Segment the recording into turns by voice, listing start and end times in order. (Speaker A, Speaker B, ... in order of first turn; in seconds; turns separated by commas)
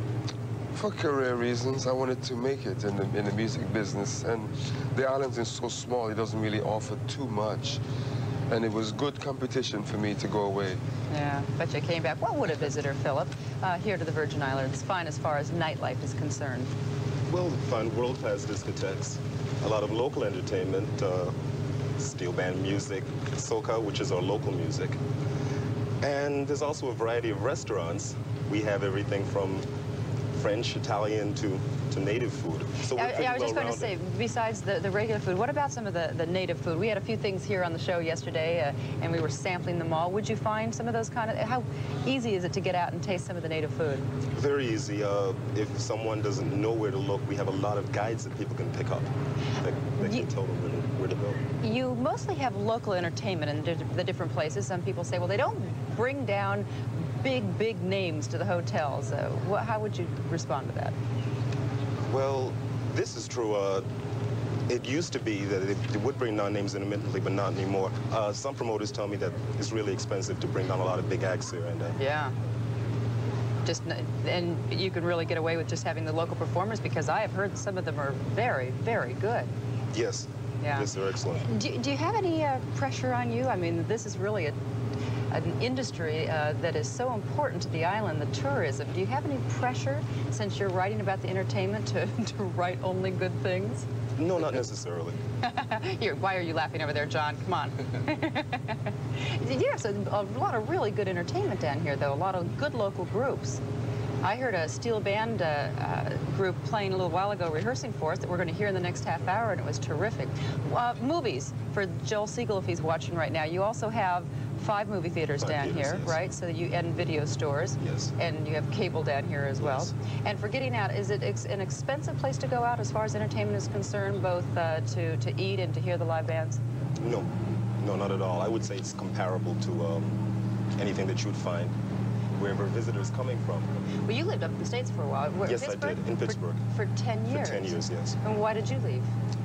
Speaker A: 0.7-7.8, Speaker A: 8.5-10.8, Speaker B: 11.1-16.7, Speaker C: 17.3-21.4, Speaker C: 22.0-25.0, Speaker C: 26.0-29.6, Speaker C: 30.4-33.9, Speaker B: 32.9-44.1, Speaker C: 44.3-49.1, Speaker C: 49.6-51.4, Speaker B: 50.0-50.3, Speaker B: 51.6-56.7, Speaker B: 57.2-60.9, Speaker C: 62.1-63.8, Speaker C: 64.7-72.0, Speaker B: 72.0-72.3, Speaker B: 73.7-79.5, Speaker C: 79.9-81.4, Speaker B: 80.6-84.6, Speaker B: 85.3-93.9, Speaker C: 94.2-95.2, Speaker B: 95.4-103.6, Speaker B: 104.2-126.6, Speaker C: 115.4-116.3, Speaker C: 117.8-118.1, Speaker C: 119.6-119.9, Speaker C: 127.0-127.3, Speaker C: 127.8-130.2, Speaker C: 130.8-131.7, Speaker C: 132.3-133.7, Speaker B: 134.1-139.1, Speaker C: 135.4-136.6, Speaker C: 137.3-138.2